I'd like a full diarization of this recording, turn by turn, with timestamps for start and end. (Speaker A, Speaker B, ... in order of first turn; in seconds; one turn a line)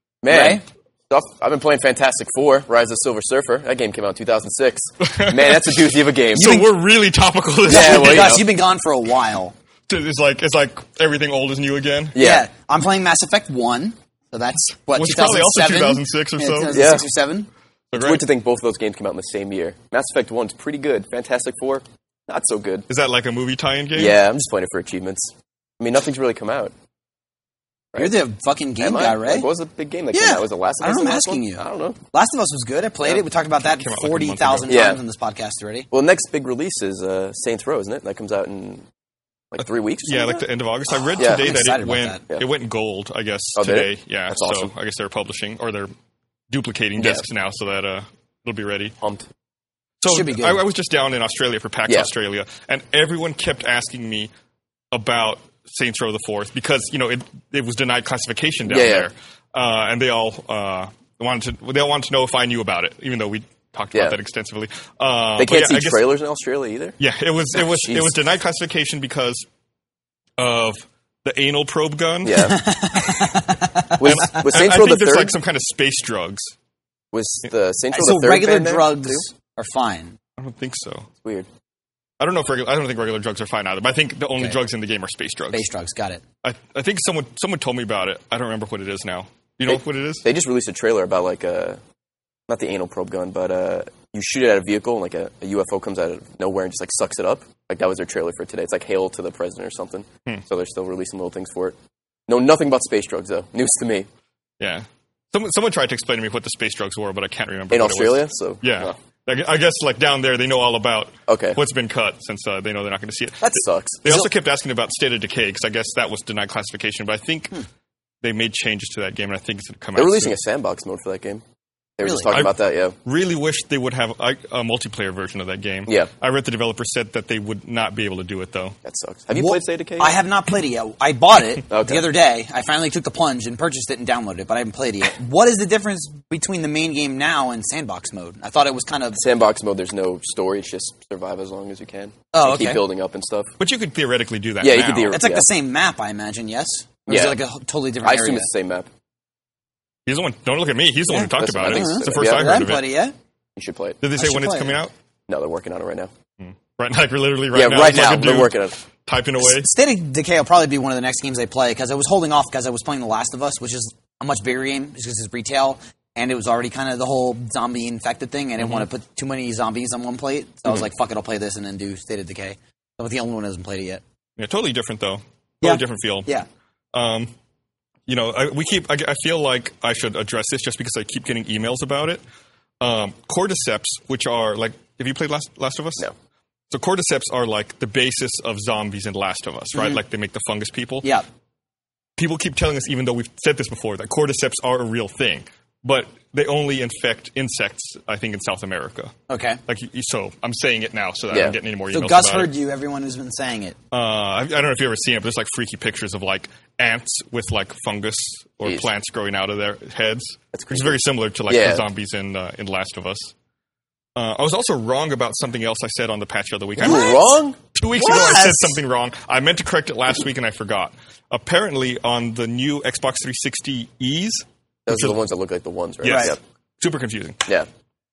Speaker A: 0.2-6.6
Speaker B: 0.3-0.6
Speaker C: 5.0-8.4
Speaker B: 6.4-6.7
Speaker A: 7.7-8.4
Speaker B: 7.7-9.5
Speaker C: 9.9-12.2
Speaker A: 12.1-12.5
Speaker B: 12.2-17.5
Speaker C: 14.9-16.9
Speaker A: 16.7-17.0
Speaker C: 17.9-18.2
Speaker A: 17.9-22.9
Speaker C: 22.9-24.2
Speaker A: 23.9-26.7
Speaker B: 27.9-29.5
Speaker A: 28.8-32.0
Speaker B: 30.1-35.9
Speaker C: 33.8-34.8
Speaker A: 34.7-35.0
Speaker A: 35.9-38.9
Speaker A: 39.5-40.4
Speaker C: 40.0-45.9
Speaker B: 40.9-42.2
Speaker A: 41.2-41.5
Speaker A: 43.5-44.7
Speaker C: 46.5-48.9
Speaker A: 47.0-47.2
Speaker A: 49.0-49.3
Speaker C: 50.0-54.3
Speaker B: 50.0-50.6
Speaker C: 54.9-66.0
Speaker A: 58.7-59.1
Speaker A: 63.9-64.2
Speaker A: 65.4-67.0
Speaker C: 67.0-69.4
Speaker A: 67.5-68.2
Speaker C: 70.4-72.5
Speaker A: 72.2-72.7
Speaker B: 72.3-74.0
Speaker A: 74.0-75.4
Speaker C: 74.0-76.5
Speaker A: 77.1-79.2
Speaker B: 77.9-80.2
Speaker C: 80.4-81.1
Speaker A: 81.2-81.5
Speaker C: 82.2-85.6
Speaker B: 85.5-86.2
Speaker C: 86.4-90.2
Speaker A: 89.7-91.8
Speaker A: 92.5-101.8
Speaker A: 102.3-104.1
Speaker C: 104.6-117.6
Speaker A: 107.7-109.0
Speaker A: 111.3-111.6
Speaker A: 113.4-114.2
Speaker C: 118.2-120.3
Speaker A: 119.9-121.4
Speaker A: 122.0-122.9
Speaker B: 122.0-122.3
Speaker C: 123.0-128.8
Speaker A: 128.8-130.2
Speaker B: 129.3-139.2
Speaker A: 131.7-132.0
Speaker A: 139.2-143.5
Speaker B: 142.3-142.8
Speaker C: 143.6-145.1
Speaker A: 144.6-145.5
Speaker B: 145.1-148.5
Speaker A: 147.1-147.4
Speaker A: 148.0-148.9
Speaker C: 150.1-152.9
Speaker B: 151.1-153.1
Speaker A: 151.2-152.6
Speaker A: 153.6-154.0
Speaker C: 154.0-154.9
Speaker B: 154.2-154.8
Speaker A: 155.3-156.1
Speaker C: 156.4-159.7
Speaker A: 157.5-158.7
Speaker B: 159.4-174.0
Speaker C: 174.4-176.3
Speaker B: 175.6-176.5
Speaker C: 176.9-177.3
Speaker C: 178.1-182.2
Speaker C: 182.8-186.1
Speaker C: 186.7-191.1
Speaker B: 189.7-190.0
Speaker C: 192.2-199.1
Speaker B: 199.3-199.6
Speaker C: 199.7-202.5
Speaker A: 201.3-201.6
Speaker B: 201.9-203.8
Speaker C: 203.9-213.3
Speaker A: 210.5-211.8
Speaker C: 214.2-217.2
Speaker A: 216.8-217.6
Speaker B: 216.8-217.2
Speaker C: 217.7-225.2
Speaker B: 217.9-218.8
Speaker A: 224.8-226.4
Speaker C: 226.0-227.4
Speaker B: 226.0-226.3